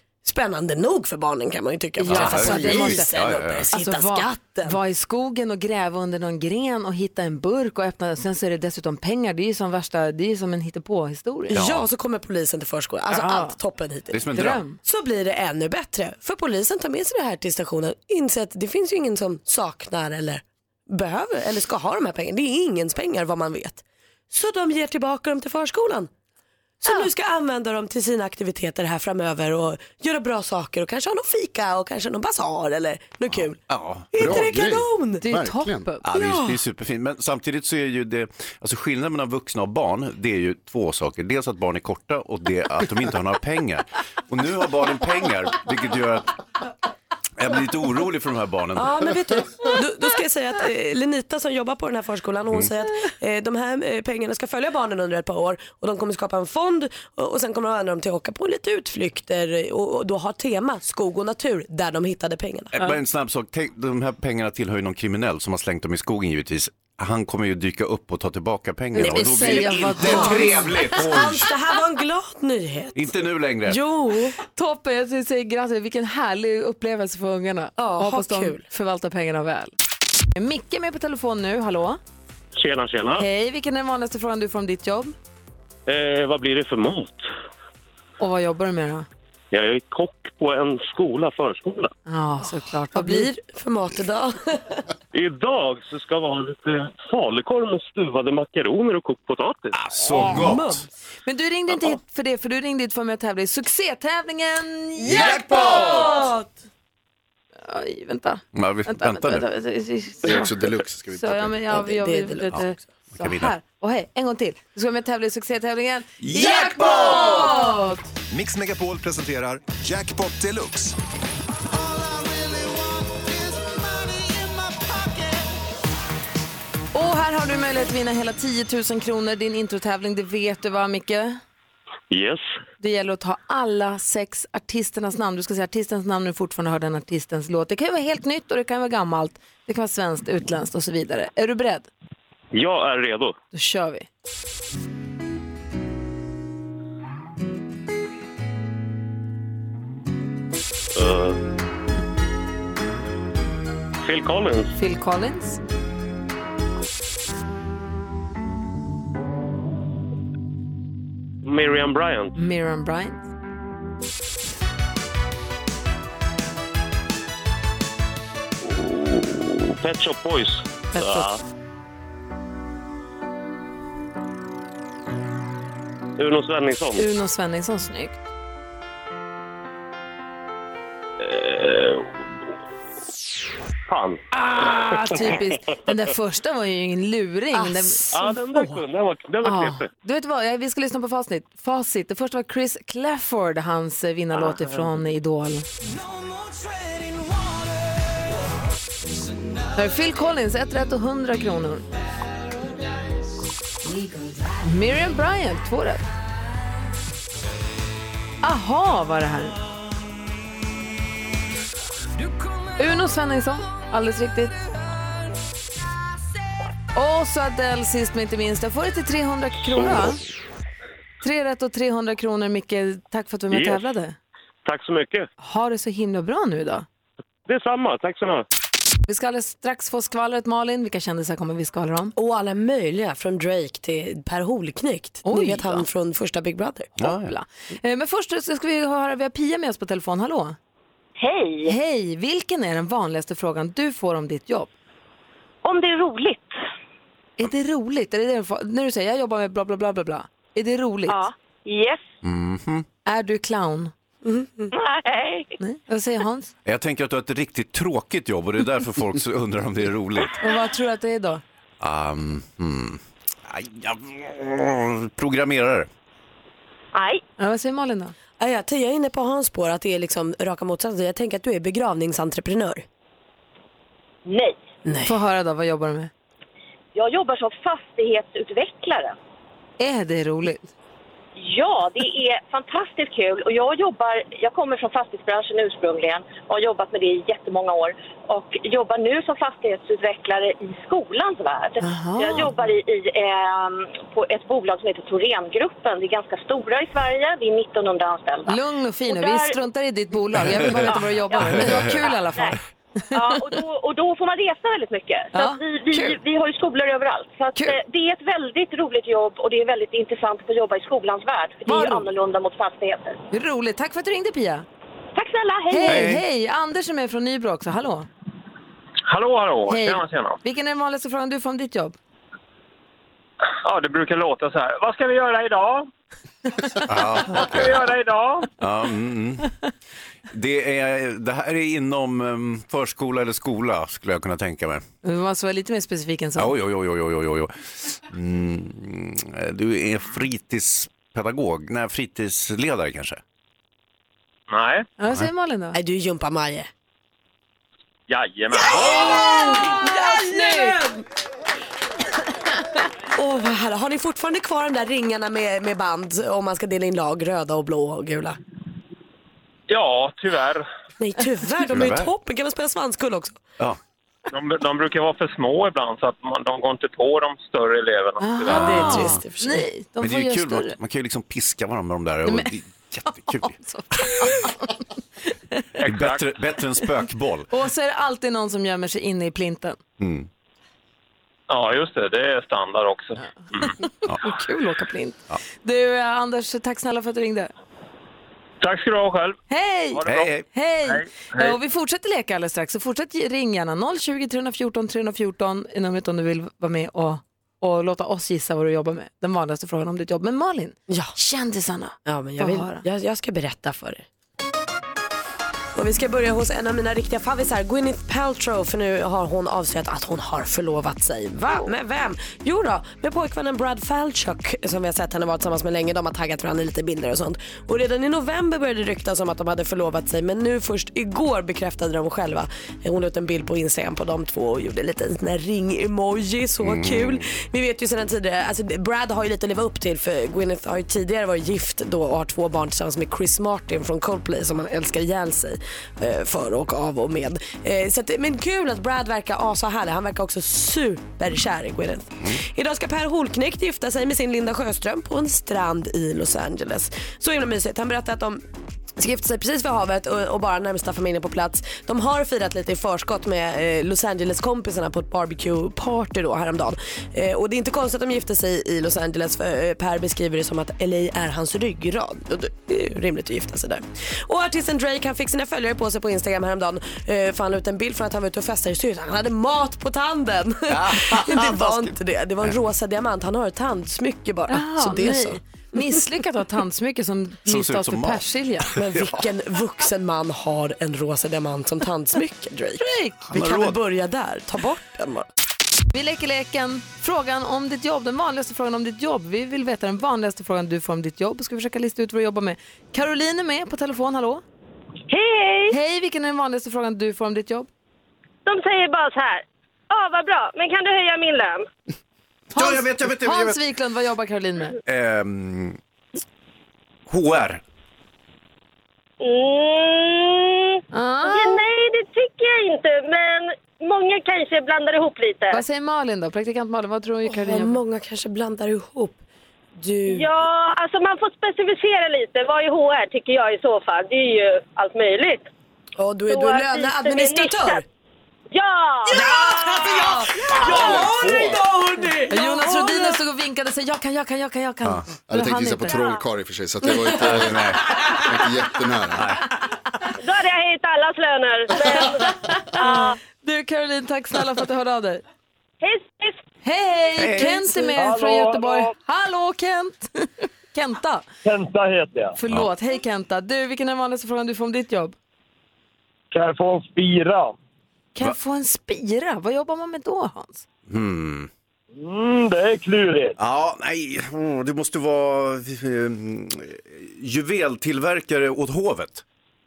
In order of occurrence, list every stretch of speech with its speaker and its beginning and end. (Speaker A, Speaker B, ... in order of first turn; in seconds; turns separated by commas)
Speaker A: 0.2-4.8, Speaker B: 2.0-11.6, Speaker C: 2.0-3.7, Speaker A: 11.5-26.1, Speaker C: 11.5-11.8, Speaker B: 13.1-13.6, Speaker C: 14.1-14.6, Speaker B: 14.3-14.8, Speaker A: 26.8-33.6, Speaker C: 33.3-34.4, Speaker A: 34.1-35.3, Speaker D: 34.2-35.9, Speaker B: 35.3-36.0, Speaker C: 36.0-46.3, Speaker A: 36.1-36.6, Speaker C: 47.4-49.1, Speaker A: 48.8-62.8, Speaker C: 62.7-71.5, Speaker B: 68.9-70.9, Speaker A: 69.0-73.0, Speaker C: 72.9-73.8, Speaker A: 73.7-74.4, Speaker B: 74.5-79.7, Speaker A: 77.8-78.6, Speaker B: 80.3-82.0, Speaker E: 82.5-83.2, Speaker B: 83.2-85.1, Speaker E: 85.9-87.3, Speaker B: 88.2-89.1, Speaker E: 89.5-91.9, Speaker B: 92.0-93.3, Speaker A: 92.9-94.8, Speaker E: 95.1-99.8, Speaker C: 99.7-100.8, Speaker A: 100.1-100.9, Speaker B: 101.2-106.3, Speaker A: 105.0-106.5, Speaker C: 105.1-106.1, Speaker B: 107.6-118.0, Speaker C: 108.5-109.5, Speaker D: 110.2-111.6, Speaker A: 111.7-112.7, Speaker C: 113.2-113.5, Speaker C: 116.2-117.5, Speaker F: 118.3-120.9, Speaker F: 121.7-125.5, Speaker B: 126.9-131.4, Speaker E: 132.1-132.4, Speaker B: 132.8-141.9, Speaker E: 142.5-143.3, Speaker B: 143.5-144.1, Speaker E: 150.9-151.4, Speaker E: 154.0-154.8, Speaker B: 154.8-155.6, Speaker E: 161.4-162.4, Speaker B: 162.3-163.2, Speaker E: 168.6-171.4, Speaker B: 170.9-171.3, Speaker E: 176.2-177.1, Speaker B: 176.9-178.2, Speaker E: 181.2-182.2, Speaker E: 183.9-184.2, Speaker B: 184.3-188.2, Speaker A: 187.5-188.7, Speaker E: 188.1-189.9, Speaker B: 189.4-195.7, Speaker B: 199.7-201.8, Speaker B: 204.6-206.0, Speaker B: 208.4-209.6, Speaker B: 212.8-214.6, Speaker B: 216.9-220.2, Speaker B: 221.2-224.2, Speaker E: 223.5-223.8, Speaker E: 224.6-225.3, Speaker B: 225.4-226.8, Speaker E: 227.5-228.4, Speaker B: 229.1-232.1, Speaker A: 232.2-236.9, Speaker B: 235.2-235.8, Speaker C: 237.0-237.3, Speaker B: 237.0-240.6, Speaker G: 241.2-241.8, Speaker B: 241.7-244.7, Speaker G: 245.6-246.6, Speaker B: 247.4-251.3, Speaker G: 251.1-252.0, Speaker C: 252.2-252.8, Speaker B: 253.0-253.9, Speaker A: 254.2-254.7, Speaker G: 254.7-255.5, Speaker B: 255.6-256.5, Speaker C: 256.6-260.4, Speaker B: 260.4-261.4, Speaker C: 261.8-265.9, Speaker G: 266.9-267.2, Speaker B: 267.4-268.1, Speaker A: 268.4-272.8, Speaker G: 274.2-274.6, Speaker A: 274.8-275.1, Speaker B: 275.1-276.1, Speaker G: 276.9-279.1, Speaker B: 279.8-280.7, Speaker G: 281.4-299.6, Speaker B: 291.8-292.5, Speaker B: 298.5-302.6, Speaker G: 300.8-302.6, Speaker C: 301.4-301.9, Speaker G: 303.1-313.2, Speaker B: 303.1-303.5, Speaker B: 305.3-306.2, Speaker B: 311.7-312.1, Speaker B: 313.3-314.6, Speaker G: 315.1-316.2, Speaker B: 315.7-318.1, Speaker C: 315.9-316.2, Speaker E: 319.1-320.4, Speaker B: 319.7-321.9, Speaker E: 323.6-325.9, Speaker C: 326.9-327.7, Speaker E: 327.3-328.5, Speaker C: 328.6-329.4, Speaker C: 330.3-334.8, Speaker B: 335.0-336.5, Speaker C: 336.4-343.2, Speaker E: 344.5-344.9, Speaker B: 345.0-345.8, Speaker A: 345.7-346.7, Speaker E: 348.1-349.4, Speaker A: 348.5-351.0, Speaker B: 349.3-350.7, Speaker A: 353.1-358.4, Speaker E: 359.7-360.6, Speaker A: 361.0-363.4, Speaker C: 361.7-362.1, Speaker E: 364.3-368.8, Speaker B: 368.2-370.7, Speaker A: 368.5-369.6, Speaker C: 370.0-373.5, Speaker B: 372.2-372.5, Speaker B: 373.1-374.8, Speaker E: 375.8-376.3, Speaker C: 375.8-377.5, Speaker B: 377.5-379.8, Speaker C: 380.0-380.3, Speaker E: 381.5-383.7, Speaker B: 383.8-387.5, Speaker E: 388.6-389.4, Speaker B: 389.5-402.8, Speaker E: 389.9-391.6, Speaker C: 390.0-390.4, Speaker A: 402.1-404.0, Speaker A: 405.7-448.4, Speaker C: 426.6-427.2, Speaker A: 449.0-475.4, Speaker C: 470.7-472.6, Speaker B: 474.5-478.7, Speaker C: 477.4-478.2, Speaker A: 478.7-485.2, Speaker C: 478.8-479.1, Speaker B: 482.8-483.2, Speaker C: 483.3-483.8, Speaker B: 485.9-494.4, Speaker H: 495.1-495.7, Speaker B: 495.7-497.7, Speaker H: 498.4-501.7, Speaker C: 502.5-503.6, Speaker B: 502.5-504.8, Speaker C: 504.9-505.8, Speaker C: 507.1-507.6, Speaker H: 509.2-515.6, Speaker B: 510.9-511.6, Speaker B: 515.5-517.8, Speaker A: 517.2-519.2, Speaker A: 519.8-520.3, Speaker H: 520.1-525.5, Speaker A: 526.0-527.8, Speaker H: 526.3-527.8, Speaker H: 528.5-529.6, Speaker A: 529.1-533.1, Speaker D: 530.7-531.6, Speaker B: 532.3-536.0, Speaker D: 535.3-537.7, Speaker C: 537.2-537.8, Speaker D: 538.3-539.3, Speaker C: 539.1-539.4, Speaker H: 540.2-543.2, Speaker B: 541.8-542.1, Speaker B: 542.7-545.2, Speaker H: 545.8-546.4, Speaker B: 546.6-551.3, Speaker C: 547.1-547.8, Speaker I: 547.9-548.9, Speaker I: 551.4-552.4, Speaker B: 552.4-555.1, Speaker I: 556.3-557.6, Speaker B: 558.1-560.6, Speaker C: 560.9-561.5, Speaker I: 561.9-563.4, Speaker C: 563.4-569.2